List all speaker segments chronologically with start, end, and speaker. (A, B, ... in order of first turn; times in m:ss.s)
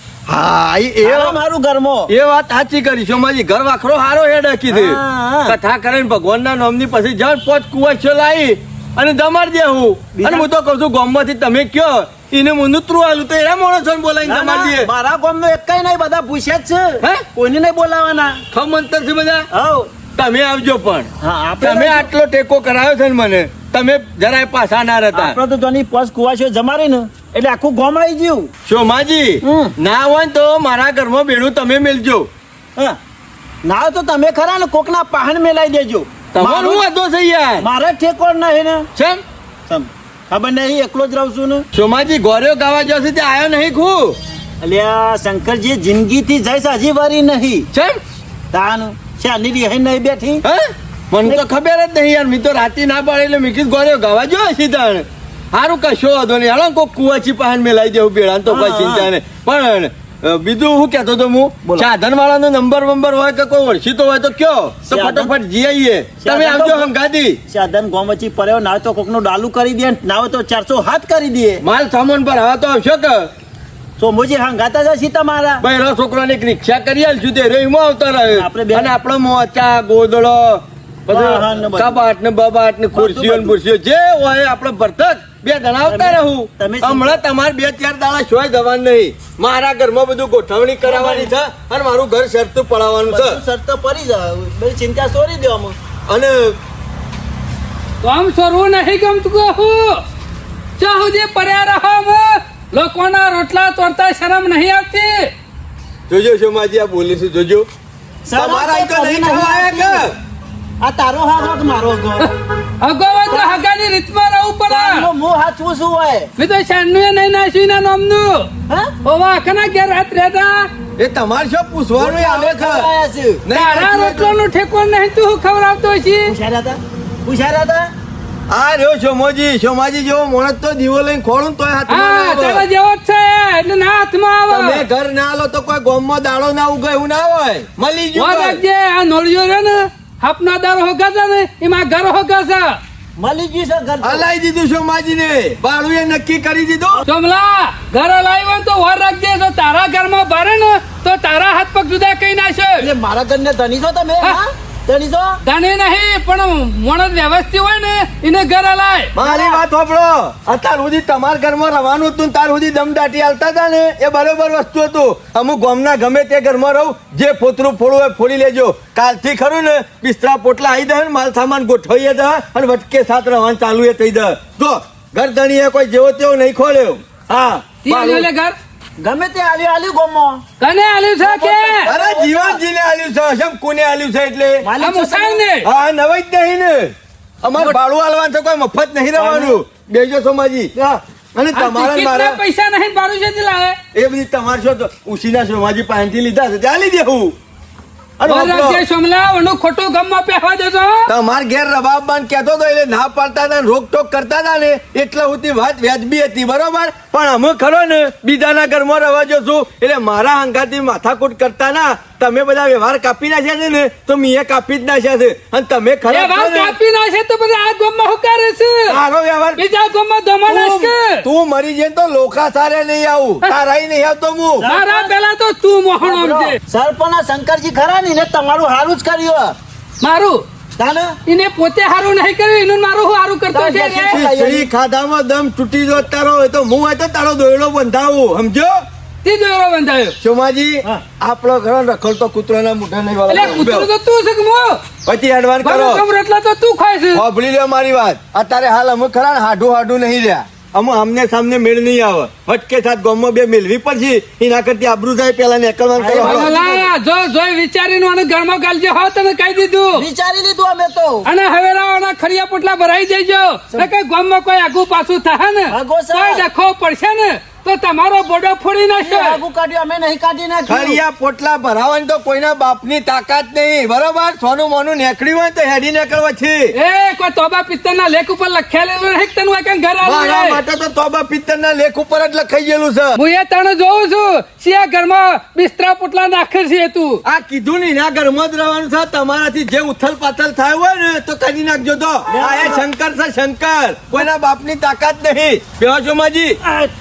0:00.3-0:01.4 A
0:01.0-0:02.1 B
0:02.1-0:14.9 A
0:04.7-0:05.6 B
0:10.1-0:10.5 B
0:14.2-0:18.4 B
0:18.5-0:19.5 A
0:19.5-0:19.9 B
0:20.1-0:21.1 A
0:21.2-0:22.1 B
0:21.6-0:25.4 A
0:25.1-0:28.5 B
0:28.6-0:32.3 A
0:29.4-0:29.8 B
0:33.6-0:36.8 B
0:36.3-0:37.6 A
0:37.6-0:38.9 B
0:39.0-0:39.2 A
0:39.7-0:41.6 B
0:41.7-0:44.2 A
0:44.6-0:47.7 B
0:47.7-0:48.0 A
0:48.5-0:50.4 B
0:50.4-1:07.4 A
0:58.5-0:59.1 B
1:04.9-1:05.3 B
1:06.2-1:06.9 B
1:07.5-1:11.6 B
1:11.6-1:13.3 A
1:14.0-1:15.6 B
1:15.6-1:33.4 A
1:18.3-1:18.9 B
1:21.1-1:22.0 B
1:22.9-1:23.6 B
1:25.8-1:27.2 B
1:30.8-1:31.3 B
1:33.1-1:35.8 B
1:36.1-1:36.6 A
1:38.0-1:40.0 C
1:40.8-1:45.3 C
1:46.1-1:47.7 A
1:48.2-1:50.0 B
1:48.3-1:50.2 A
1:50.8-1:52.3 B
1:52.2-1:55.1 C
1:53.3-1:53.6 B
1:54.7-1:56.3 B
1:56.4-1:58.5 C
1:58.7-1:58.9 B
1:59.0-2:00.7 C
2:01.0-2:02.9 A
2:02.0-2:03.4 B
2:03.4-2:04.4 A
2:03.5-2:06.3 C
2:06.2-2:07.9 B
2:08.5-2:12.6 A
2:11.9-2:14.8 C
2:14.5-2:18.6 A
2:18.2-2:22.8 C
2:23.2-2:24.2 B
2:24.0-2:27.0 A
2:27.1-2:32.9 C
2:32.8-2:35.4 B
2:35.4-2:39.1 C
2:39.1-2:58.3 A
2:39.2-2:39.6 B
2:57.8-2:58.5 C
2:59.0-3:00.4 B
3:00.6-3:01.9 C
3:01.2-3:02.6 B
3:01.8-3:04.6 A
3:04.6-3:05.4 B
3:04.8-3:05.7 C
3:05.6-3:10.7 A
3:09.2-3:09.6 B
3:11.3-3:12.4 A
3:11.5-3:13.8 C
3:13.9-3:17.3 A
3:18.2-3:18.8 A
3:18.2-3:21.1 C
3:21.1-3:36.8 A
3:36.1-3:39.0 C
3:38.9-3:39.6 A
3:39.6-3:41.2 C
3:40.5-3:44.7 A
3:44.6-3:45.1 B
3:44.6-3:46.6 C
3:46.0-3:49.6 B
3:50.0-3:50.4 C
3:50.8-3:51.2 B
3:51.2-3:54.2 C
3:53.5-3:54.7 B
3:54.1-3:58.8 A
3:59.2-4:00.2 C
4:00.2-4:03.9 A
4:03.3-4:04.8 C
4:05.0-4:06.0 A
4:05.6-4:07.2 C
4:07.1-4:16.6 A
4:16.0-4:16.9 B
4:16.2-4:20.0 C
4:19.9-4:21.3 B
4:21.2-4:29.4 C
4:25.7-4:26.4 B
4:29.0-4:31.0 B
4:30.7-4:36.7 A
4:36.7-4:40.6 C
4:40.0-4:43.2 A
4:43.2-4:47.2 C
4:47.2-4:56.6 A
4:52.3-4:52.8 B
4:56.6-4:56.9 B